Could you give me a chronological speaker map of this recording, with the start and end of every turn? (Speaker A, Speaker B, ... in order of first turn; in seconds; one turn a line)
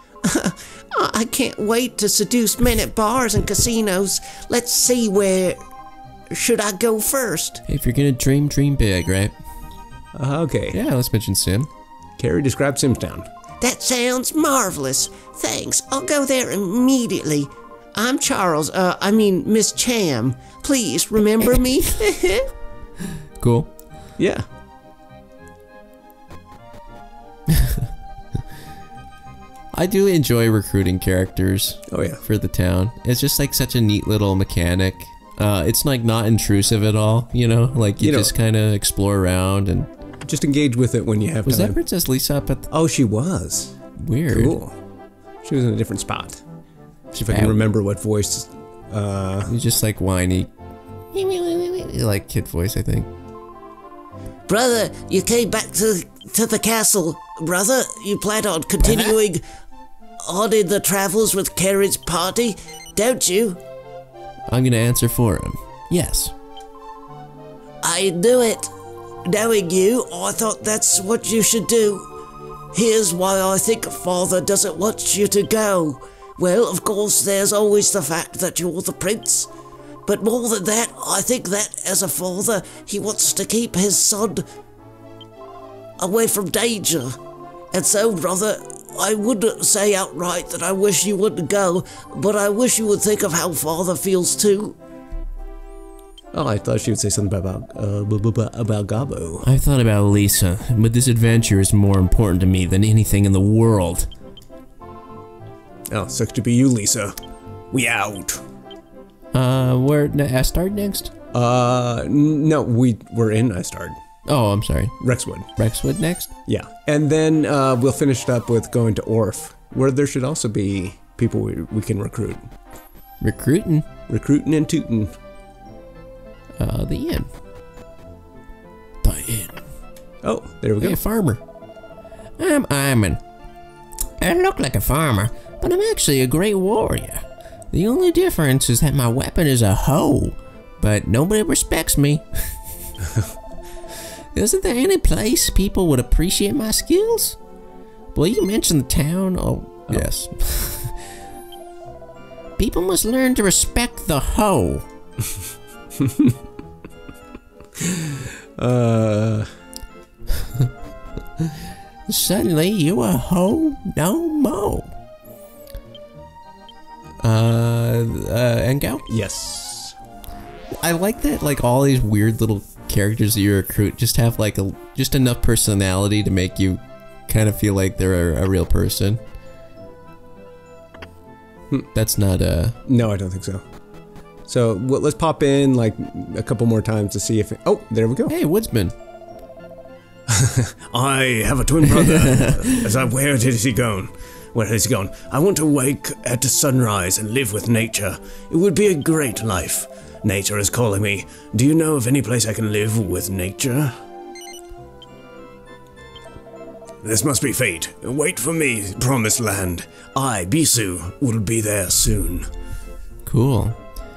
Speaker A: 0.2-5.6
Speaker A: 6.3-7.6
Speaker B: 7.7-9.3
Speaker C: 10.1-10.8
Speaker B: 10.7-11.7
Speaker C: 12.2-13.3
Speaker A: 13.6-22.5
Speaker B: 23.4-23.7
Speaker C: 24.2-24.5
Speaker B: 27.5-27.9
Speaker B: 29.7-39.9
Speaker C: 31.9-32.2
Speaker C: 38.0-38.3
Speaker C: 40.2-41.8
Speaker B: 41.5-42.7
Speaker C: 42.7-43.8
Speaker B: 44.0-44.6
Speaker C: 44.3-44.8
Speaker C: 45.4-46.4
Speaker B: 47.1-47.6
Speaker C: 47.1-49.5
Speaker B: 49.5-50.5
Speaker B: 51.1-53.1
Speaker A: 54.5-59.4
Speaker B: 58.8-59.1
Speaker A: 60.2-63.6
Speaker B: 64.5-66.3
Speaker A: 67.8-68.7
Speaker A: 69.2-72.1
Speaker A: 72.7-79.5
Speaker A: 80.1-84.5
Speaker A: 86.0-87.2
Speaker A: 87.7-94.8
Speaker C: 96.3-99.5
Speaker B: 99.4-104.1
Speaker C: 105.9-107.2
Speaker C: 107.7-108.4
Speaker B: 109.3-111.1
Speaker C: 111.3-114.0
Speaker B: 114.3-115.0
Speaker C: 115.0-115.5
Speaker B: 115.6-116.3
Speaker C: 116.5-122.5
Speaker B: 123.2-123.9
Speaker C: 124.1-125.1
Speaker B: 126.6-127.3
Speaker B: 129.0-129.6
Speaker C: 130.2-131.0
Speaker B: 130.8-131.4
Speaker B: 132.4-133.2
Speaker B: 134.2-142.6
Speaker B: 144.3-147.4
Speaker B: 148.1-151.0
Speaker B: 152.6-154.9
Speaker C: 156.0-156.4
Speaker C: 157.8-159.5
Speaker B: 162.1-164.9
Speaker B: 167.2-169.1
Speaker C: 169.1-170.0
Speaker B: 170.8-179.2
Speaker B: 181.9-182.8
Speaker C: 182.8-183.6
Speaker C: 184.5-188.3
Speaker B: 188.3-188.9
Speaker C: 190.3-203.9
Speaker B: 192.1-192.9
Speaker C: 207.0-212.5
Speaker B: 213.3-213.8